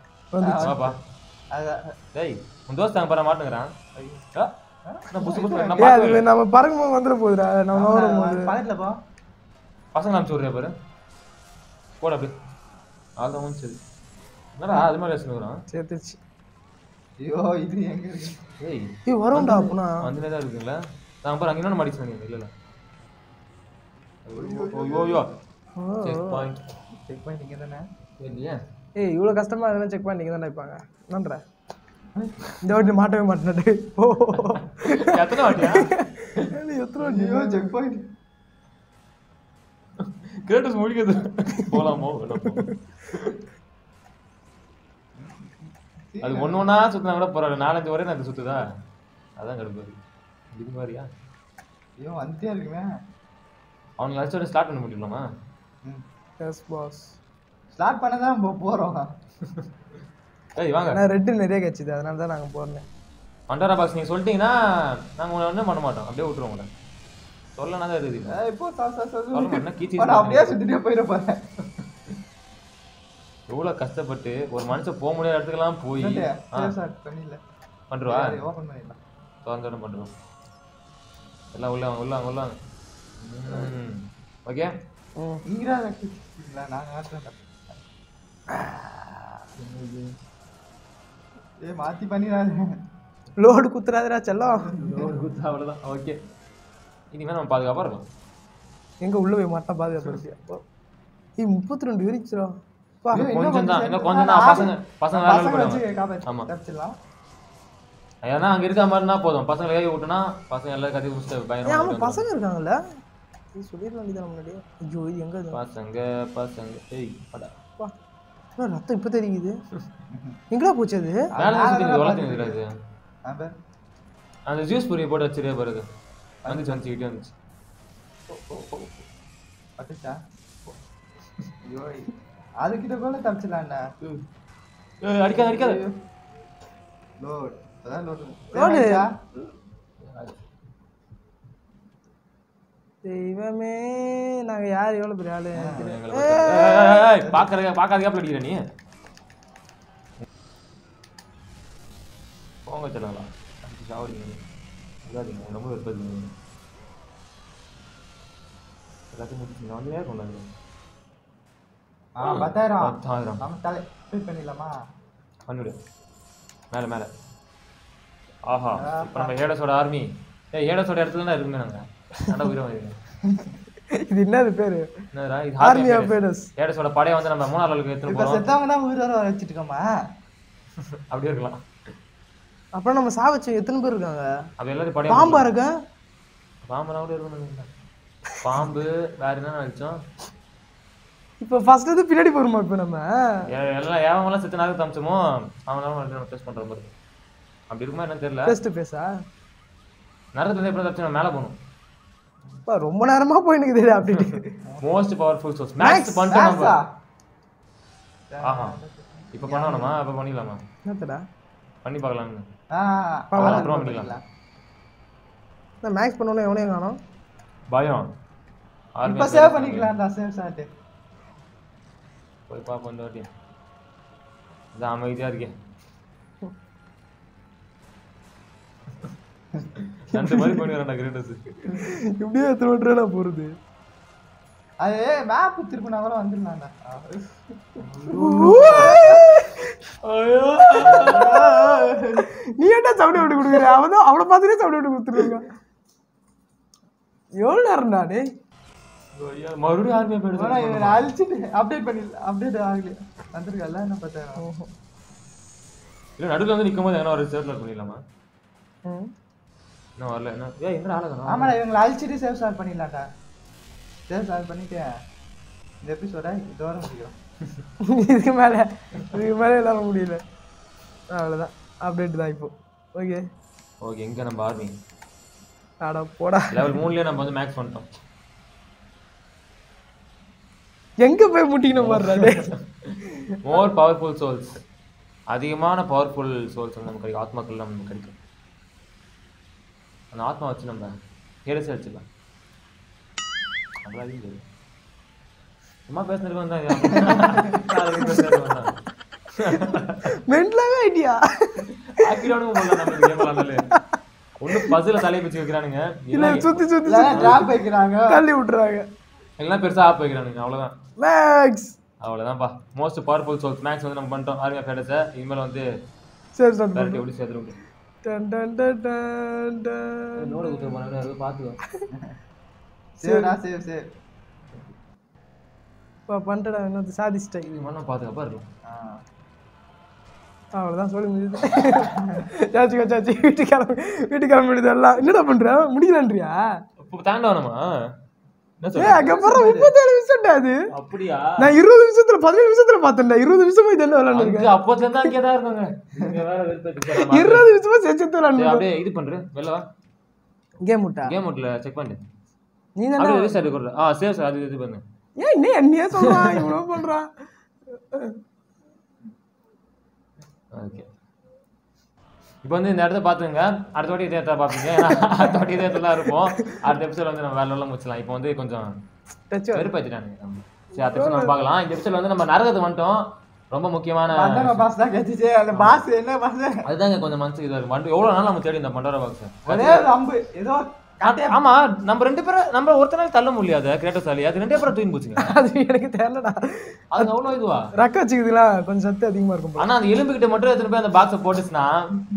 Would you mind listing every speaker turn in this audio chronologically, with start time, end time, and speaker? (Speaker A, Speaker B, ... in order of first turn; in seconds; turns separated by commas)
Speaker A: 0.3-0.7, Speaker B: 0.4-0.9, Speaker C: 0.6-1.0, Speaker B: 1.5-1.9, Speaker C: 2.1-3.7, Speaker B: 4.0-4.2, Speaker B: 4.8-6.2, Speaker C: 5.1-6.2, Speaker A: 5.8-8.5, Speaker B: 7.7-9.0, Speaker C: 9.9-10.7, Speaker C: 12.0-12.3, Speaker C: 13.2-13.8, Speaker C: 14.6-15.6, Speaker A: 15.7-16.2, Speaker B: 17.2-18.5, Speaker C: 18.6-22.5, Speaker A: 19.1-20.0, Speaker C: 24.2-25.3, Speaker B: 24.3-25.2, Speaker A: 25.8-26.5, Speaker C: 26.0-26.6, Speaker B: 27.1-27.9, Speaker C: 28.2-28.6, Speaker A: 29.0-31.4, Speaker B: 32.1-32.4, Speaker A: 32.6-37.7, Speaker C: 34.3-36.0, Speaker B: 37.0-38.1, Speaker C: 40.0-43.3, Speaker B: 45.2-46.7, Speaker C: 46.2-48.6, Speaker C: 49.4-50.0, Speaker C: 50.5-51.1, Speaker B: 52.0-52.9, Speaker C: 54.0-55.3, Speaker A: 56.4-57.1, Speaker B: 57.8-59.1, Speaker C: 60.5-61.0, Speaker A: 60.9-62.8, Speaker C: 63.5-66.7, Speaker C: 67.5-68.4, Speaker B: 68.3-71.4, Speaker C: 69.3-70.6, Speaker C: 73.5-76.7, Speaker B: 76.0-77.4, Speaker C: 77.9-78.4, Speaker B: 78.1-79.0, Speaker C: 79.4-80.1, Speaker C: 81.5-82.6, Speaker C: 83.2-84.7, Speaker A: 85.2-85.4, Speaker B: 85.5-87.8, Speaker C: 89.6-90.2, Speaker B: 91.6-92.8, Speaker A: 93.4-94.7, Speaker B: 94.6-95.2, Speaker C: 94.8-96.2, Speaker C: 97.1-98.0, Speaker A: 99.0-100.6, Speaker A: 101.4-103.2, Speaker C: 103.1-106.5, Speaker B: 103.1-107.0, Speaker C: 108.2-112.2, Speaker A: 111.7-112.8, Speaker A: 113.5-115.6, Speaker C: 115.5-117.5, Speaker A: 118.6-119.5, Speaker B: 120.1-120.4, Speaker A: 120.5-121.3, Speaker B: 121.3-122.6, Speaker C: 121.4-122.7, Speaker B: 123.2-123.5, Speaker C: 124.5-125.8, Speaker B: 126.5-126.9, Speaker C: 126.5-127.3, Speaker B: 128.3-129.0, Speaker B: 129.8-130.2, Speaker B: 131.6-133.9, Speaker C: 135.0-135.8, Speaker B: 135.3-135.9, Speaker B: 137.2-139.1, Speaker A: 138.5-139.0, Speaker C: 140.0-140.4, Speaker A: 143.0-147.0, Speaker B: 145.6-145.9, Speaker C: 145.8-148.7, Speaker B: 147.2-147.5, Speaker C: 152.7-154.4, Speaker C: 155.0-156.3, Speaker C: 159.1-160.5, Speaker B: 162.2-164.8, Speaker C: 162.2-163.4, Speaker C: 165.5-165.8, Speaker C: 166.7-167.1, Speaker C: 168.5-172.9, Speaker B: 168.8-169.4, Speaker B: 173.2-173.6, Speaker A: 173.9-174.9, Speaker C: 175.1-178.4, Speaker A: 175.6-176.5, Speaker B: 178.1-179.9, Speaker C: 180.8-181.6, Speaker A: 182.8-184.3, Speaker C: 184.6-185.4, Speaker A: 185.1-185.7, Speaker C: 186.7-187.7, Speaker C: 188.4-190.0, Speaker A: 191.4-193.1, Speaker C: 193.5-196.9, Speaker C: 197.7-198.6, Speaker A: 198.4-199.2, Speaker C: 200.3-201.6, Speaker A: 202.7-204.5, Speaker C: 204.1-206.8, Speaker B: 204.6-204.9, Speaker A: 205.8-206.3, Speaker B: 206.3-206.8, Speaker B: 208.3-210.0, Speaker C: 208.4-208.8, Speaker C: 209.3-210.6, Speaker A: 210.8-211.2, Speaker C: 211.8-212.4, Speaker B: 212.7-214.2, Speaker A: 213.3-213.7, Speaker C: 213.4-214.2, Speaker A: 215.8-217.0, Speaker C: 217.7-218.1, Speaker C: 219.0-219.9, Speaker B: 219.0-220.7, Speaker C: 222.5-223.3, Speaker C: 224.7-225.6, Speaker C: 229.9-231.4, Speaker A: 230.1-230.6, Speaker A: 231.7-233.5, Speaker B: 234.8-239.3, Speaker C: 237.8-239.1, Speaker A: 238.1-239.7, Speaker C: 240.0-241.8, Speaker A: 240.6-241.7, Speaker B: 240.8-242.2, Speaker A: 242.2-245.5, Speaker A: 247.4-248.3, Speaker C: 249.1-251.1, Speaker B: 250.3-254.4, Speaker A: 254.4-254.7, Speaker C: 256.2-258.0, Speaker A: 258.9-259.1, Speaker C: 260.0-261.6, Speaker B: 261.3-263.1, Speaker B: 264.1-264.9, Speaker B: 265.8-267.1, Speaker A: 267.8-270.2, Speaker A: 271.1-273.2, Speaker C: 273.8-274.8, Speaker A: 275.8-276.7, Speaker C: 276.5-277.9, Speaker A: 281.0-282.5, Speaker C: 281.7-284.6, Speaker C: 285.3-288.2, Speaker C: 290.1-292.1, Speaker C: 293.8-294.4, Speaker C: 295.9-298.8, Speaker A: 296.9-298.4, Speaker C: 299.3-300.2, Speaker A: 299.5-303.9, Speaker C: 301.8-303.6, Speaker C: 304.4-307.4, Speaker A: 306.1-307.5, Speaker B: 306.8-308.2, Speaker A: 308.1-308.9, Speaker C: 309.4-310.7, Speaker A: 311.0-311.8, Speaker C: 312.0-315.7, Speaker A: 316.4-317.0, Speaker C: 316.7-317.6, Speaker A: 318.0-320.7, Speaker C: 320.1-321.6, Speaker B: 323.0-323.8, Speaker A: 323.0-323.3, Speaker A: 326.1-327.5, Speaker C: 327.4-328.5, Speaker B: 328.6-329.0, Speaker A: 330.6-336.6, Speaker C: 331.6-331.8, Speaker B: 331.9-332.2, Speaker C: 336.8-337.7, Speaker C: 338.6-339.2, Speaker A: 338.7-340.6, Speaker B: 338.9-339.7, Speaker C: 340.7-341.5, Speaker A: 341.4-344.5, Speaker C: 344.1-347.5, Speaker A: 346.9-348.7, Speaker C: 348.3-349.6, Speaker A: 350.6-351.1, Speaker C: 351.1-352.0, Speaker A: 352.8-353.4, Speaker C: 353.0-354.8, Speaker A: 355.2-357.1, Speaker C: 356.0-356.5, Speaker A: 357.7-358.2, Speaker C: 360.5-360.9, Speaker C: 362.4-368.7, Speaker A: 369.3-369.7, Speaker C: 369.5-374.7, Speaker A: 370.8-371.3, Speaker B: 374.1-376.6, Speaker C: 375.5-375.8, Speaker C: 376.6-379.9, Speaker B: 379.5-381.4, Speaker C: 381.0-385.3, Speaker A: 385.2-387.0, Speaker C: 386.9-387.7, Speaker A: 387.8-389.7, Speaker C: 389.6-391.9